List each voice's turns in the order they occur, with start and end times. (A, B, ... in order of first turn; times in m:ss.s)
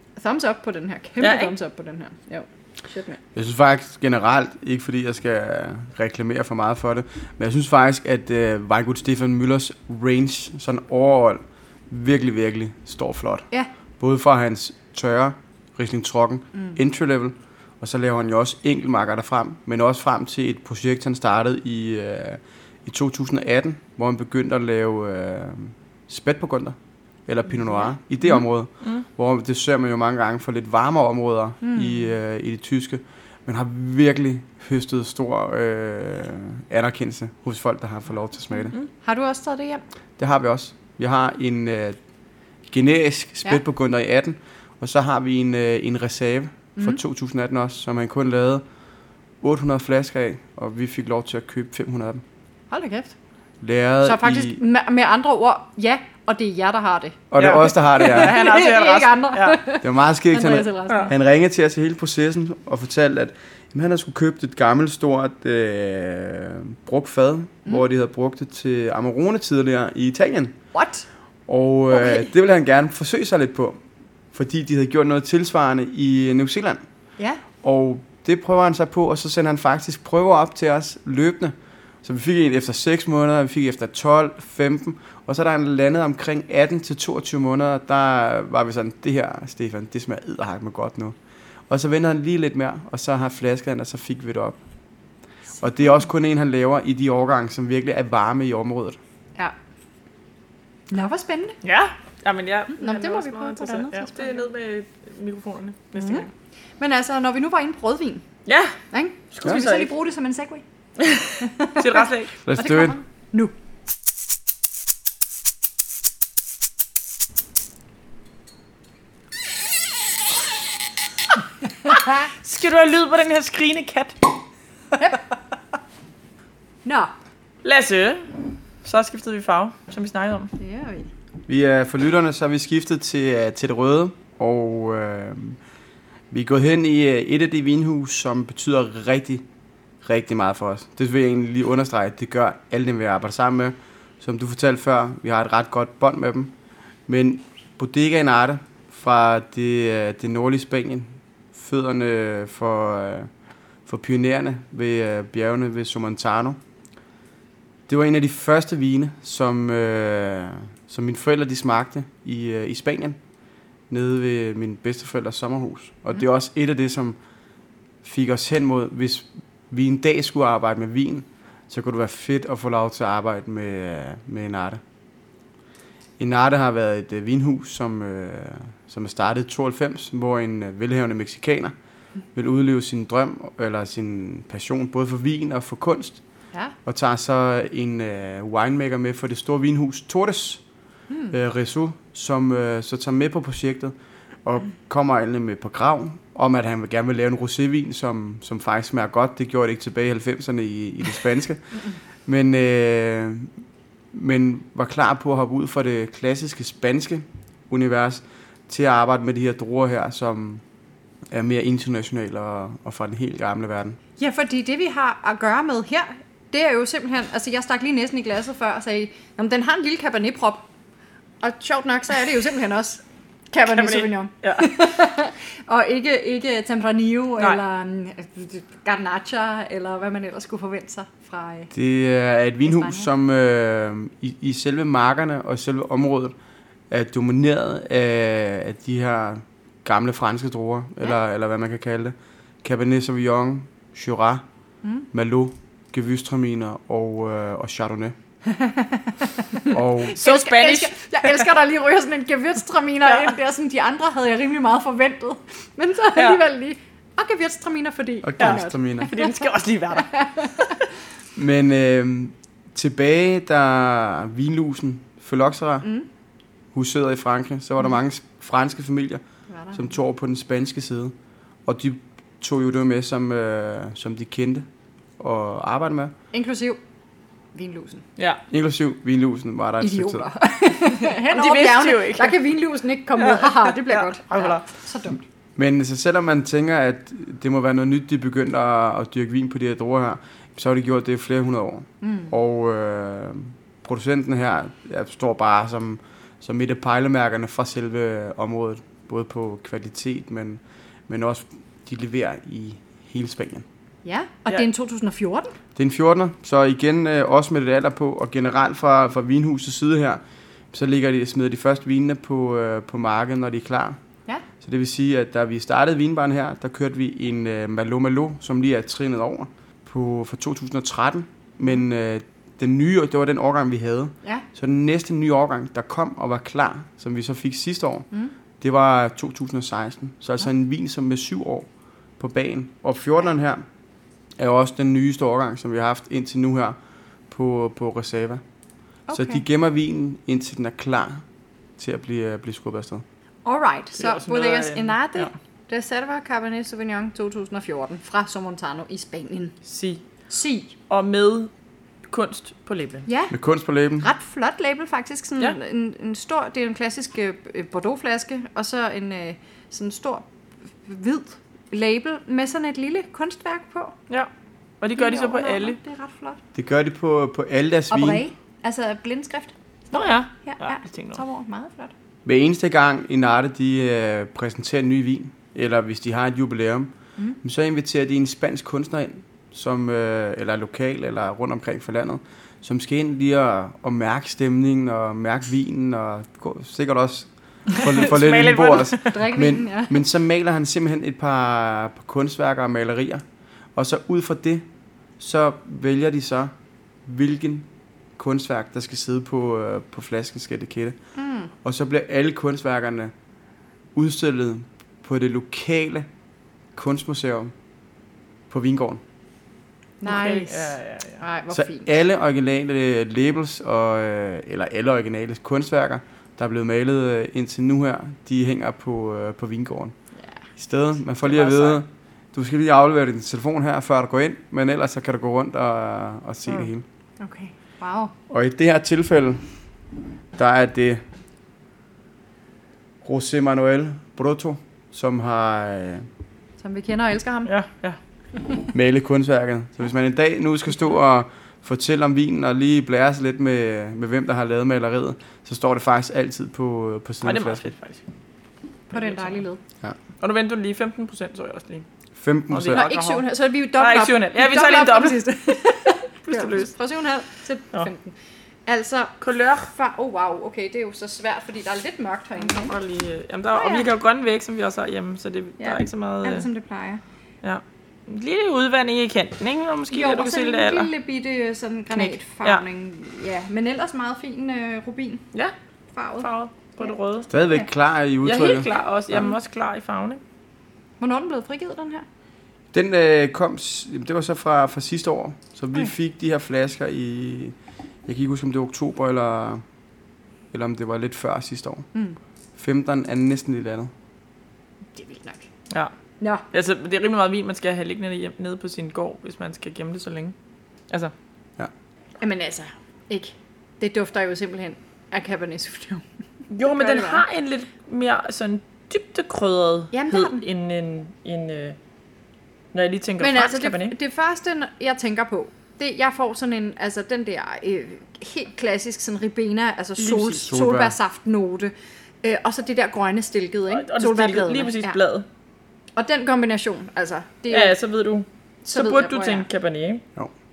0:00.2-0:03.2 A
0:01.2-0:01.5 B
0:03.4-0:13.5 C
0:14.0-0:38.7 C
0:31.6-0:32.1 A
0:39.0-0:39.8 A
0:40.2-0:42.0 C
0:42.7-0:48.6 C
0:49.4-0:52.2 C
0:52.7-0:53.1 A
0:53.6-0:54.6 C
0:54.0-1:01.1 A
0:57.3-0:58.4 C
0:57.4-0:59.6 B
0:59.8-1:10.6 C
1:10.7-1:11.1 A
1:11.5-1:13.8 C
1:11.9-1:12.3 A
1:14.3-1:16.8 C
1:17.6-1:31.2 C
1:31.7-1:34.6 C
1:35.6-1:39.0 C
1:40.9-1:41.6 A
1:41.6-1:46.3 B
1:42.7-1:44.5 A
1:46.0-1:46.3 A
1:46.8-1:48.2 A
1:48.5-1:48.8 B
1:48.9-1:50.6 A
1:49.3-1:49.9 B
1:51.0-1:52.3 B
1:51.4-1:53.5 A
1:52.4-1:53.0 C
2:02.1-2:04.2 B
2:06.8-2:07.1 A
2:07.6-2:10.5 B
2:10.6-2:11.1 A
2:11.5-2:15.6 C
2:16.3-2:19.4 C
2:20.0-2:26.5 C
2:27.1-2:33.3 C
2:33.9-2:36.6 C
2:37.9-2:43.2 C
2:43.9-2:47.2 C
2:48.0-2:54.8 C
2:56.2-3:01.8 C
3:02.4-3:06.2 C
3:06.8-3:10.6 C
3:11.1-3:11.4 A
3:11.3-3:23.5 C
3:24.1-3:30.6 C
3:31.3-3:34.0 C
3:34.2-3:40.6 A
3:41.4-3:51.7 A
3:43.7-3:44.7 B
3:51.7-3:56.4 C
3:52.7-3:53.1 A
3:56.9-4:04.4 C
4:05.1-4:08.2 C
4:08.5-4:19.4 A
4:09.7-4:10.2 C
4:10.2-4:11.5 B
4:16.2-4:16.4 B
4:18.2-4:19.1 C
4:18.4-4:20.3 B
4:20.0-4:20.7 A
4:21.4-4:25.9 C
4:25.8-4:26.1 A
4:26.7-4:29.2 C
4:29.5-4:29.9 A
4:29.7-4:31.2 C
4:31.7-4:34.7 C
4:35.2-4:36.1 C
4:36.3-4:36.8 A
4:37.6-4:38.0 A
4:38.2-4:38.4 B
4:38.5-4:40.3 C
4:39.8-4:45.2 A
4:41.0-4:42.4 B
4:43.2-4:44.7 B
4:45.6-5:03.6 C
4:52.0-4:52.3 A
5:04.0-5:05.6 A
5:05.8-5:10.2 C
5:10.7-5:14.0 C
5:14.6-5:28.1 C
5:28.6-5:33.6 C
5:34.4-5:36.8 C
5:37.3-5:38.4 C
5:39.1-5:39.4 A
5:39.1-5:41.2 C
5:41.8-5:43.0 C
5:43.4-5:49.6 A
5:44.0-5:45.3 B
5:49.7-5:50.0 B
5:50.3-5:50.8 A
5:50.9-5:51.5 B
5:52.1-5:53.1 B
5:53.1-5:53.4 A
5:53.3-5:54.1 C
5:54.0-6:04.0 A
6:04.8-6:05.8 B
6:05.0-6:06.4 A
6:06.6-6:08.2 C
6:07.9-6:09.5 A
6:09.9-6:11.2 B
6:10.4-6:11.9 A
6:12.2-6:33.2 C
6:27.8-6:29.1 B
6:29.0-6:30.0 A
6:33.8-6:34.7 C
6:35.2-6:36.5 C
6:37.0-6:41.0 C
6:41.2-6:41.5 A
6:41.6-6:43.1 C
6:44.0-6:46.1 C
6:46.8-6:47.5 C
6:48.5-6:49.0 C
6:50.0-6:51.9 A
6:50.0-6:51.2 B
6:51.5-7:00.0 C
7:00.6-7:06.9 C
7:01.2-7:01.8 B
7:07.2-7:08.1 A
7:08.3-7:09.5 C
7:10.4-7:11.0 C
7:13.0-7:16.1 C
7:16.6-7:17.5 A
7:17.5-7:18.0 B
7:18.7-7:27.7 C
7:27.2-7:28.0 B
7:28.9-7:29.4 B
7:28.9-7:29.6 A
7:30.2-7:31.9 B
7:32.2-7:32.9 C
7:32.5-7:33.3 B
7:32.7-7:38.1 A
7:33.8-7:35.4 B
7:36.2-7:36.7 B
7:38.7-7:42.8 A
7:39.2-7:39.7 B
7:42.4-7:46.5 B
7:43.5-7:43.9 A
7:45.6-7:47.0 A
7:47.4-7:50.9 B
7:49.9-7:55.2 A
7:52.0-7:52.6 B
7:55.9-7:56.3 A
7:56.2-7:57.3 B
7:57.3-7:59.3 C
7:58.2-8:00.2 B
8:01.0-8:02.0 A
8:02.7-8:07.6 C
8:08.1-8:09.6 C
8:10.5-8:11.9 C
8:12.6-8:13.9 C
8:15.0-8:15.5 A
8:16.5-8:20.4 B
8:22.2-8:26.0 A
8:26.5-8:31.8 B
8:26.6-8:27.2 A
8:29.9-8:30.4 A
8:32.7-8:34.0 B
8:33.2-8:41.7 A
8:40.0-8:40.5 B
8:40.5-8:41.0 C
8:42.2-8:45.0 A
8:43.7-8:45.3 B
8:46.0-8:47.8 A
8:47.5-8:50.0 B
8:48.6-8:49.5 A